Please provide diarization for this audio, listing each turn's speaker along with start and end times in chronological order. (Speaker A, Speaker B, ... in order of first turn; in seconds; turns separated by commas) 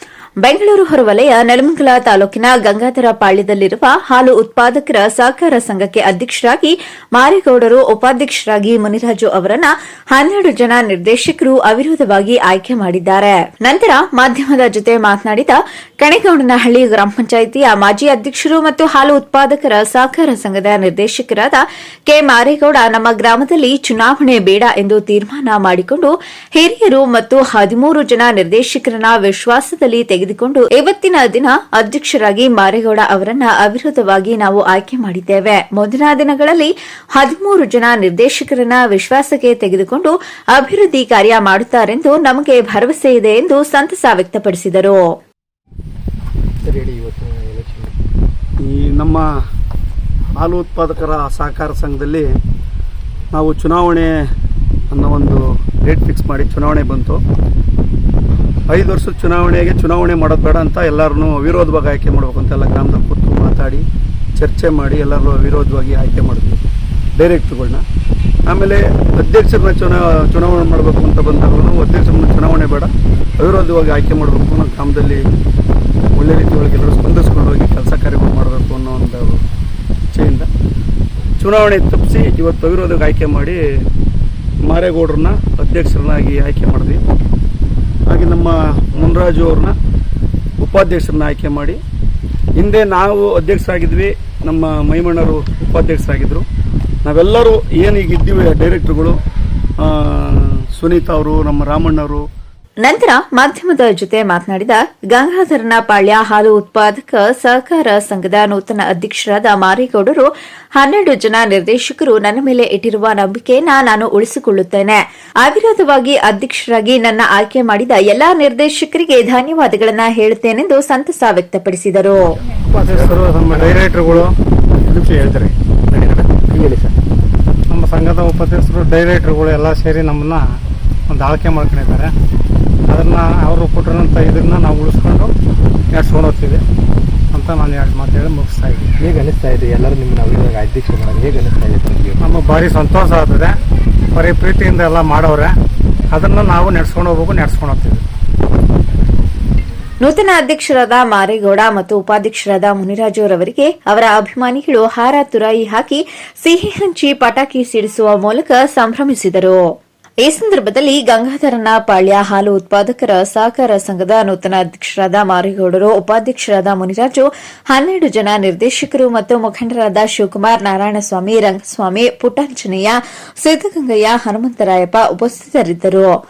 Speaker A: 0.4-45.0, Speaker B: 46.6-47.9, Speaker C: 48.6-49.2, Speaker C: 50.4-52.3, Speaker C: 53.3-54.1, Speaker C: 54.9-57.2, Speaker C: 58.7-63.8, Speaker C: 64.4-66.6, Speaker C: 67.2-67.8, Speaker C: 68.5-75.2, Speaker C: 76.1-79.4, Speaker C: 80.1-80.5, Speaker C: 81.4-83.6, Speaker C: 84.6-87.0, Speaker C: 88.1-89.7, Speaker C: 90.6-91.8, Speaker C: 92.6-96.4, Speaker C: 97.0-99.2, Speaker C: 99.8-102.2, Speaker A: 102.8-122.3, Speaker D: 122.7-124.3, Speaker D: 124.8-126.3, Speaker B: 126.5-127.0, Speaker D: 127.7-130.4, Speaker D: 131.1-132.1, Speaker D: 132.9-135.3, Speaker D: 135.9-136.6, Speaker D: 137.3-138.9, Speaker B: 139.0-142.2, Speaker D: 142.2-143.5, Speaker D: 144.1-145.5, Speaker D: 146.1-148.0, Speaker A: 150.0-159.6, Speaker A: 160.2-176.1